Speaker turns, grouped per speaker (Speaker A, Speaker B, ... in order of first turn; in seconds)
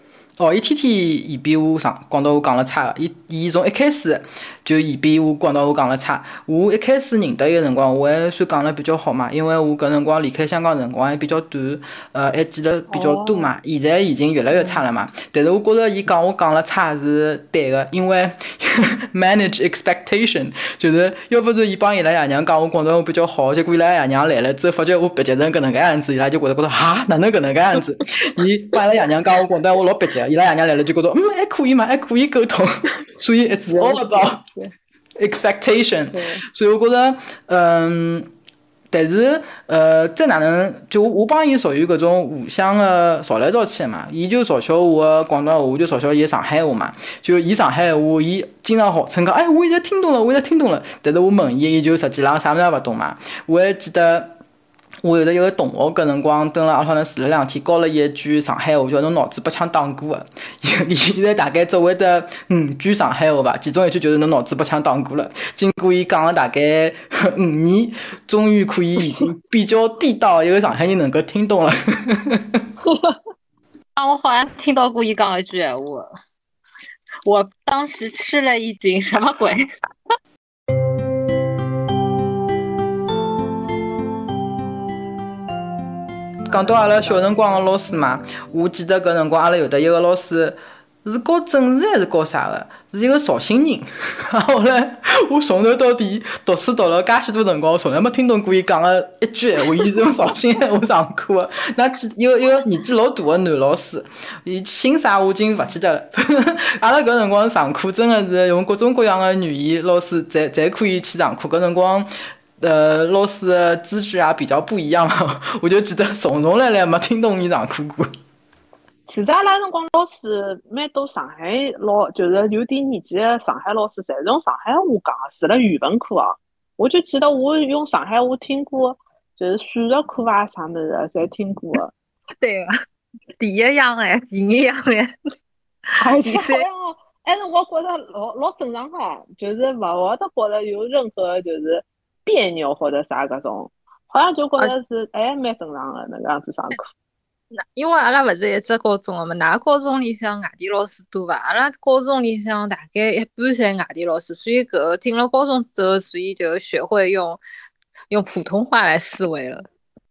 Speaker A: 0.4-34.4, 35.2-38.3, 38.9-54.4, 55.0-72.7, 86.5-118.1
Speaker B: 12.9-13.5, 14.5-14.8, 33.7-34.7, 36.1-36.4, 72.8-73.2, 119.1-131.9, 136.0-146.8
Speaker C: 74.0-76.1, 77.2-79.6, 132.4-132.7, 133.4-135.1, 136.1-136.6, 147.6-157.4, 158.1-159.7